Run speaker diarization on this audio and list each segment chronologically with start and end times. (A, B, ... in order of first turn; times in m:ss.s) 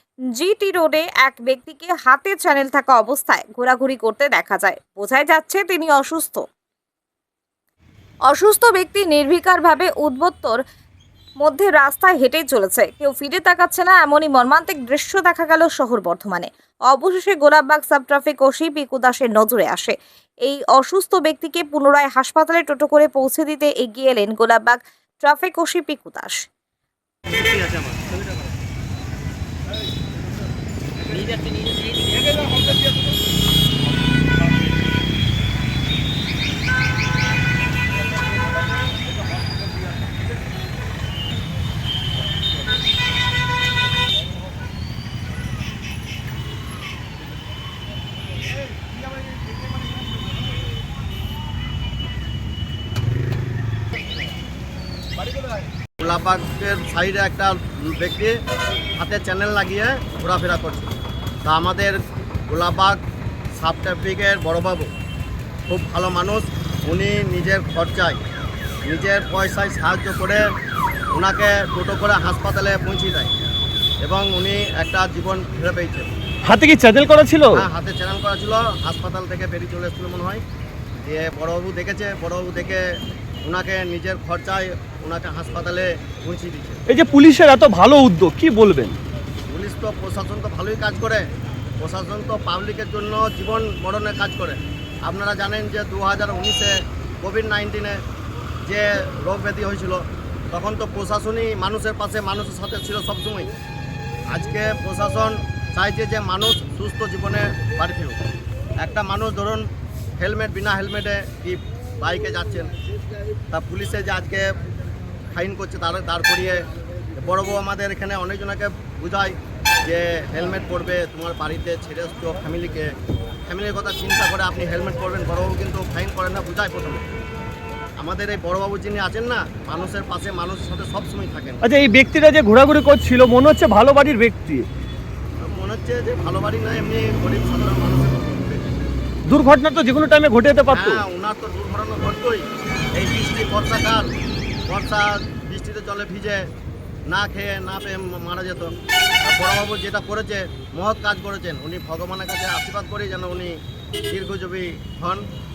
0:00.3-0:06.4 A
0:08.3-0:10.6 A
0:11.4-0:26.4 A
0:27.4-0:28.0 B
0:31.1-0:32.8 B
0:56.0-0:58.4 C
0:59.0-1:00.9 C
1:01.4-1:02.0 C
1:02.5-1:03.0 C
1:03.6-1:04.9 C
1:05.7-1:08.2 C
1:08.9-1:10.4 C
1:11.1-1:13.3 C
1:14.0-1:16.1 C
1:16.4-1:17.6 D
1:17.5-1:20.4 C
1:21.0-1:22.8 C
1:23.4-1:26.8 C
1:26.9-1:29.0 D
1:29.5-1:31.2 C
1:31.8-1:38.0 C
1:38.7-1:43.5 C
1:44.3-1:48.2 C
1:48.8-1:49.6 C
1:50.2-1:52.7 C
1:53.5-1:54.5 C
1:55.3-2:02.9 C
2:03.5-2:07.1 C
2:08.0-2:11.6 C
2:11.6-2:14.6 D
2:15.4-2:18.7 C
2:19.3-2:21.0 D
2:20.7-2:24.1 C
2:24.7-2:26.4 C
2:27.1-2:28.7 C
2:29.2-2:33.5 C
2:34.1-2:35.2 C